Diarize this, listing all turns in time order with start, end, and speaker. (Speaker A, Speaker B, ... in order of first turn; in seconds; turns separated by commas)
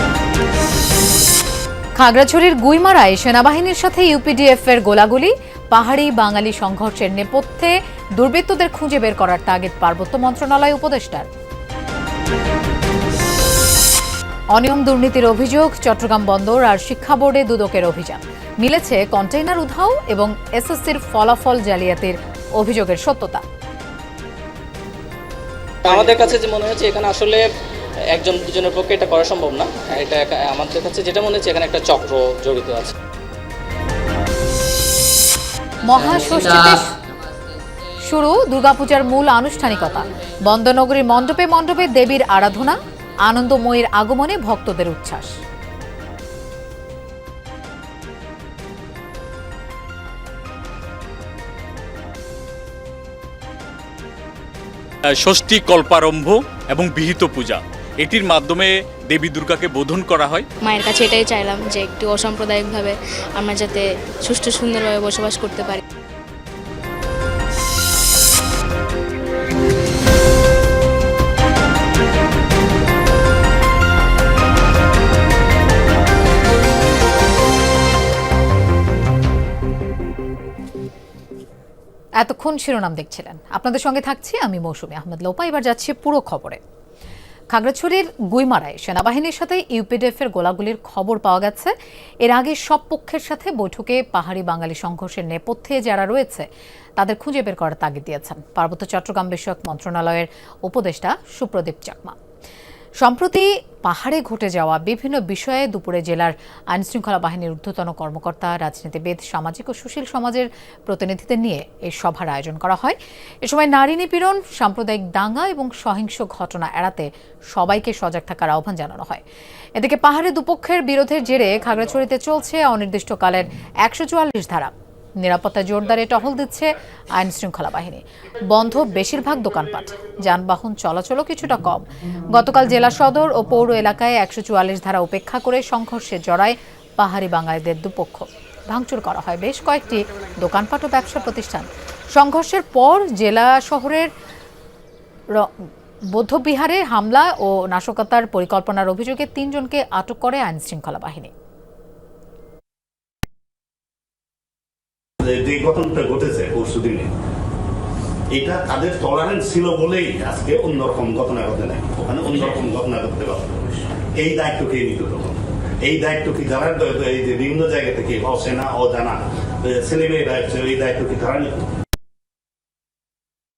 Speaker A: 2.0-11.3, Speaker A: 14.5-23.4, Speaker B: 25.9-27.4, Speaker B: 28.1-32.9, Speaker A: 35.8-36.9, Speaker A: 38.0-45.4, Speaker C: 55.2-60.5, Speaker D: 60.6-65.8, Speaker A: 82.2-86.6, Speaker A: 87.5-91.7, Speaker A: 92.2-102.2, Speaker A: 103.0-119.2, Speaker A: 119.8-144.1, Speaker A: 146.1-151.3, Speaker E: 155.3-157.1, Speaker E: 158.4-163.6, Speaker E: 164.2-165.3, Speaker E: 165.9-171.7